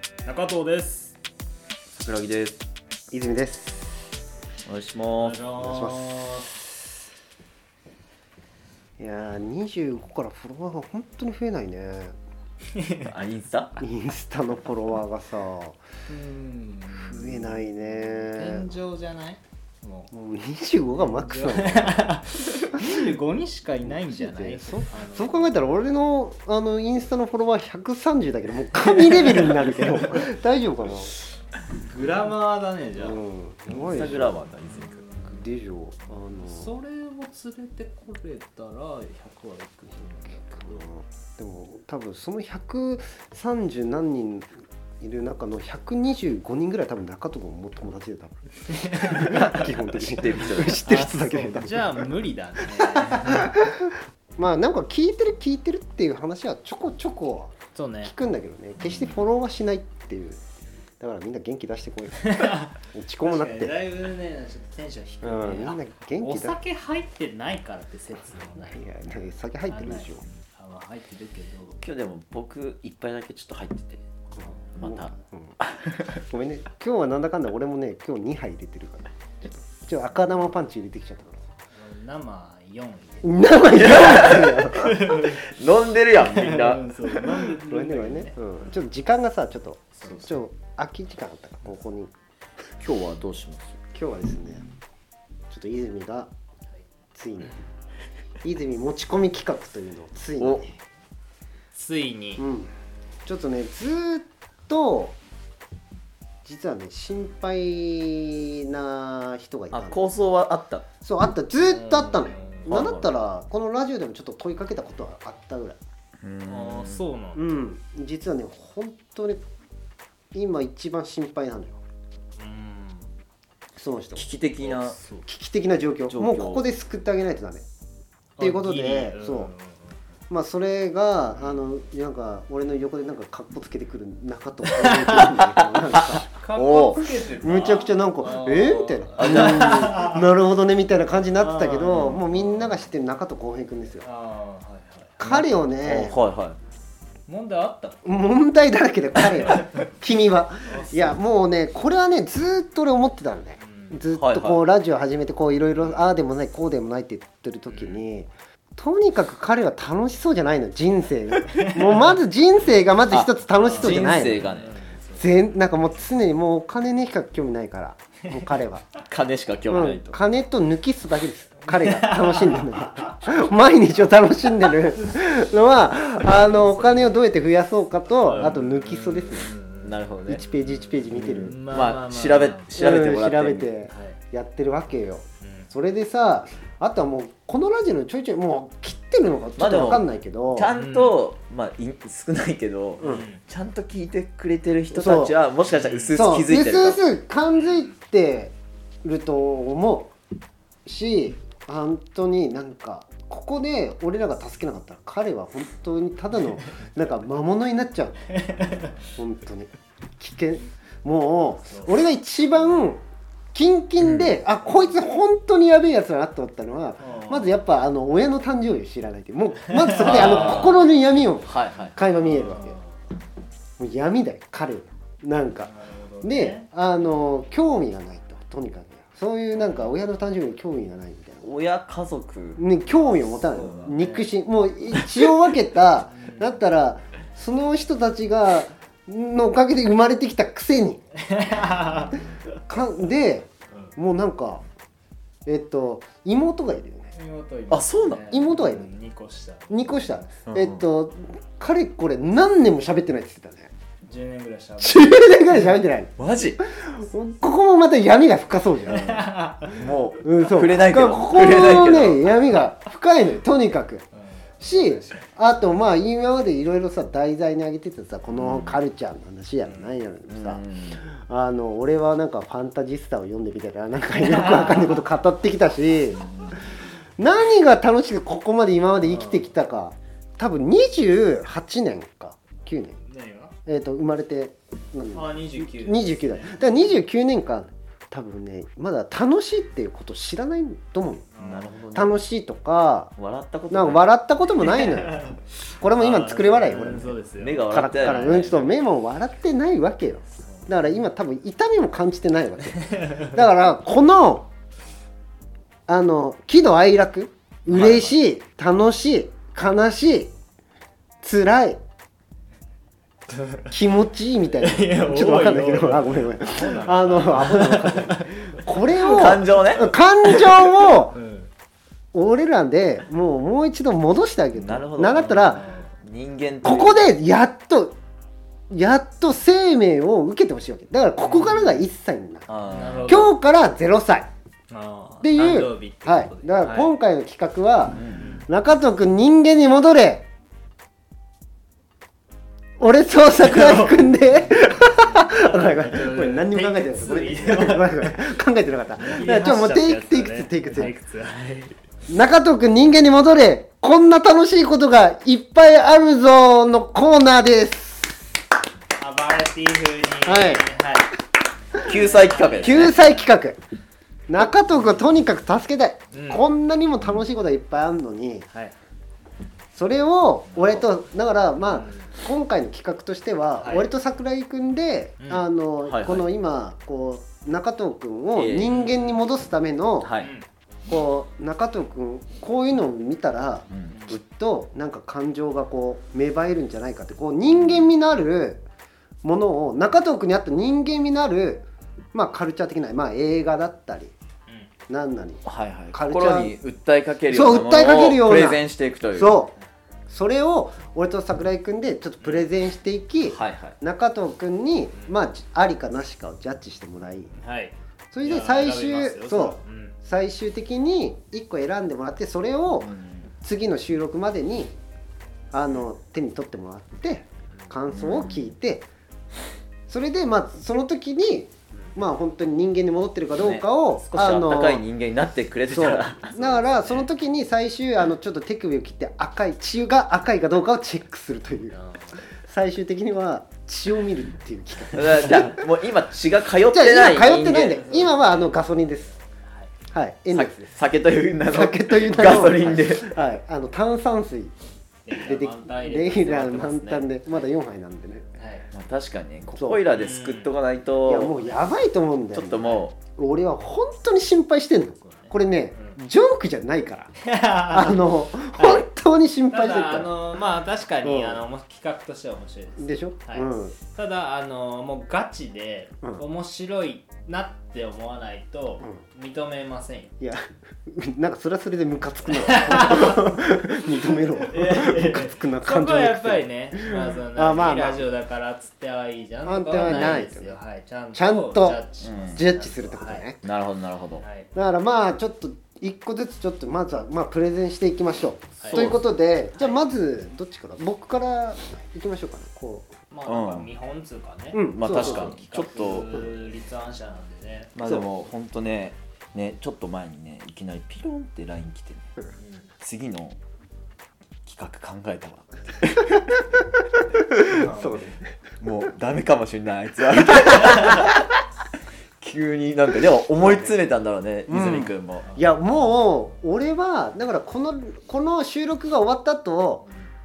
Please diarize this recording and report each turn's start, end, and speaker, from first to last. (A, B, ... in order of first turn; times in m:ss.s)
0:00.2-0:01.2 A
0:01.9-0:02.6 B
0:03.1-0:04.1 C
0:04.6-0:05.4 B
0:05.2-0:06.5 A
0:05.6-0:06.6 C
0:09.0-0:12.2 C
0:12.7-0:13.1 A
0:13.0-0:13.8 B
0:13.8-0:15.8 C
0:16.1-0:20.1 A
0:16.9-0:18.7 C
0:20.1-0:22.1 C
0:21.0-0:25.5 A
0:22.7-0:23.1 C
0:23.8-0:31.1 C
0:28.8-0:30.2 A
0:31.8-0:33.2 A
0:33.0-0:34.5 C
0:33.7-0:35.2 B
0:34.7-0:35.4 A
0:35.3-0:36.7 C
0:36.3-0:40.9 A
0:40.6-0:52.1 C
0:48.7-0:49.4 A
0:49.1-0:50.8 B
0:50.8-0:53.6 A
0:52.7-1:00.4 C
0:57.7-0:58.1 A
0:58.8-0:59.2 B
1:01.0-1:03.8 C
1:02.2-1:08.8 A
1:05.2-1:06.6 C
1:08.6-1:10.2 C
1:09.7-1:11.8 A
1:11.8-1:14.0 B
1:14.7-1:16.2 B
1:14.8-1:15.6 C
1:16.2-1:19.1 C
1:19.8-1:21.5 C
1:21.7-1:23.6 A
1:23.2-1:25.0 C
1:23.7-1:27.1 B
1:24.7-1:25.4 A
1:26.2-1:28.7 A
1:27.7-1:32.1 C
1:32.8-1:33.8 B
1:33.9-1:34.7 C
1:35.5-1:36.3 C
1:37.2-1:37.6 C
1:38.4-1:40.8 C
1:41.7-1:42.4 A
1:42.4-1:42.7 C
1:43.3-1:45.2 C
1:46.4-1:50.1 C
1:49.7-1:50.8 B
1:51.0-1:55.8 C
1:51.6-1:52.8 A
1:52.7-1:53.1 B
1:56.2-1:57.0 B
1:56.5-1:57.6 A
1:57.4-1:59.4 C
2:00.3-2:01.8 C
2:02.4-2:03.1 A
2:03.8-2:04.3 C
2:04.2-2:05.0 B
2:04.6-2:05.3 A
2:05.3-2:07.6 C
2:06.1-2:06.6 B
2:08.4-2:10.0 A
2:08.4-2:09.5 C
2:10.3-2:16.3 C
2:15.1-2:17.1 B
2:16.3-2:20.3 A
2:17.4-2:24.1 C
2:19.2-2:19.8 B
2:21.4-2:22.8 A
2:24.0-2:25.2 A
2:25.2-2:26.2 C
2:25.2-2:26.6 B
2:27.3-2:28.3 A
2:28.0-2:44.5 C
2:30.7-2:31.2 A
2:33.6-2:34.0 A
2:34.1-2:34.6 B
2:35.8-2:36.1 A
2:37.7-2:38.0 A
2:41.5-2:42.2 A
2:43.1-2:44.8 B
2:43.6-2:45.3 A
2:45.2-2:48.9 C
2:49.1-2:50.2 B
2:49.7-2:59.5 C
2:51.6-2:53.2 A
2:56.3-2:57.1 A
2:58.2-3:00.0 A
2:59.8-3:00.4 B
3:00.3-3:01.7 C
3:00.7-3:02.7 A
3:01.1-3:03.7 B
3:02.8-3:10.7 C
3:03.9-3:04.2 A
3:05.4-3:05.7 A
3:09.6-3:17.0 B
3:10.7-3:11.2 A
3:13.0-3:13.3 C
3:13.0-3:13.4 A
3:14.9-3:15.4 C
3:15.7-3:16.2 A
3:16.1-3:20.1 C
3:20.8-3:28.3 C
3:28.3-3:29.0 A
3:29.2-3:42.8 C
3:31.6-3:31.9 A
3:34.0-3:34.4 B
3:37.0-3:37.5 A
3:39.8-3:40.7 A
3:40.0-3:40.8 B
3:41.4-3:42.0 B
3:42.2-3:43.0 A
3:43.8-3:45.7 C
3:45.6-3:46.7 A
3:46.2-3:51.5 C
3:51.4-3:52.6 B
3:52.6-4:01.0 C
3:53.0-3:54.4 A
3:56.1-3:56.6 A
4:01.2-4:02.3 A
4:02.7-4:04.6 C
4:05.5-4:07.1 C
4:07.1-4:10.4 A
4:07.7-4:08.2 B
4:08.3-4:08.9 C
4:09.7-4:13.7 C
4:10.5-4:10.8 B
4:14.1-4:15.3 A
4:14.8-4:16.2 C
4:16.2-4:16.6 B
4:16.7-4:19.3 C
4:18.9-4:19.8 A
4:19.7-4:22.4 B
4:20.2-4:24.0 C
4:24.2-4:25.3 A
4:24.6-4:36.3 C
4:28.4-4:28.8 B
4:29.6-4:29.9 A
4:30.3-4:31.0 B
4:34.3-4:34.9 A
4:37.2-4:43.0 C
4:39.1-4:39.4 A
4:43.0-4:43.5 A
4:43.7-4:51.3 C
4:45.1-4:47.0 A
4:51.4-4:51.8 A
4:51.4-4:52.2 B
4:51.9-4:53.1 C
4:53.2-4:54.1 B
4:53.7-4:57.2 C
4:54.6-4:55.4 A
4:55.9-4:58.7 A
4:57.4-4:58.7 B
4:57.7-5:04.5 C
5:00.4-5:00.7 A
5:02.8-5:03.3 A
5:05.9-5:10.3 C
5:07.7-5:08.2 A
5:11.2-5:11.8 C
5:13.3-5:13.7 A
5:13.7-5:21.2 C
5:14.6-5:21.5 A
5:19.0-5:19.9 B
5:22.1-5:25.6 C
5:24.6-5:27.1 B
5:25.5-5:25.9 A
5:26.6-5:28.0 C
5:28.7-5:34.3 C
5:31.2-5:31.9 A
5:32.5-5:33.2 B
5:32.7-5:33.3 A
5:34.7-5:36.9 A
5:35.2-5:40.3 C
5:38.0-5:38.2 B
5:38.2-5:38.4 A
5:42.8-5:51.0 C
5:43.4-5:44.1 A
5:44.7-5:48.1 A
5:49.0-5:51.8 A
5:52.1-5:58.3 C
5:59.0-6:01.2 A
6:00.2-6:00.7 C
6:01.7-6:03.0 A
6:01.8-6:03.0 B
6:02.6-6:03.6 C
6:04.3-6:08.5 C
6:04.7-6:05.1 A
6:06.1-6:06.4 A
6:09.7-6:20.1 C
6:10.5-6:10.8 B
6:11.7-6:12.1 A
6:13.6-6:13.9 A
6:15.2-6:15.5 A
6:15.8-6:16.3 B
6:18.4-6:18.8 B
6:18.7-6:19.2 A
6:20.0-6:20.3 B
6:20.2-6:20.5 A
6:20.9-6:28.6 C
6:23.7-6:24.2 B
6:23.9-6:24.2 A
6:29.2-6:34.1 C
6:34.9-6:36.5 C
6:35.4-6:39.4 B
6:37.3-6:39.6 C
6:40.1-6:47.3 C
6:43.3-6:43.8 B
6:47.4-6:50.0 A
6:48.1-6:54.8 C
6:52.8-6:53.3 B
6:55.5-6:58.9 C
6:57.9-6:58.5 B
6:59.9-7:04.8 C
7:03.4-7:06.6 B
7:05.7-7:15.7 C
7:11.7-7:12.2 A
7:14.9-7:17.8 B
7:16.7-7:19.1 C
7:17.5-7:18.6 A
7:19.2-7:19.7 A
7:19.9-7:20.8 C
7:20.3-7:23.2 B
7:21.5-7:24.6 C
7:25.1-7:27.4 A
7:25.2-7:28.3 C
7:28.4-7:28.7 A
7:28.7-7:31.5 B
7:29.5-7:29.8 C
7:29.9-7:30.5 A
7:31.0-7:40.2 C
7:32.3-7:33.0 B
7:35.0-7:36.0 A
7:37.2-7:38.8 A
7:39.5-7:50.1 A
7:41.0-7:41.4 C
7:42.8-7:43.8 C
7:50.2-7:58.1 C
7:52.4-7:53.3 A
7:54.4-8:03.3 A
7:59.4-8:00.6 C
8:01.1-8:01.8 C
8:02.0-8:02.4 B
8:02.4-8:03.4 C
8:03.4-8:04.2 B
8:04.2-8:04.5 A
8:04.5-8:12.9 C
8:08.6-8:09.0 A
8:08.6-8:09.0 B
8:13.1-8:17.8 A
8:13.3-8:13.7 B
8:14.5-8:16.2 C
8:14.7-8:16.3 B
8:17.8-8:22.2 B
8:22.4-8:22.7 A
8:22.8-8:23.4 B
8:24.4-8:26.3 B
8:27.5-8:28.2 A
8:27.5-8:28.2 C
8:28.6-8:31.4 B
8:32.2-8:35.3 B
8:34.5-8:39.9 C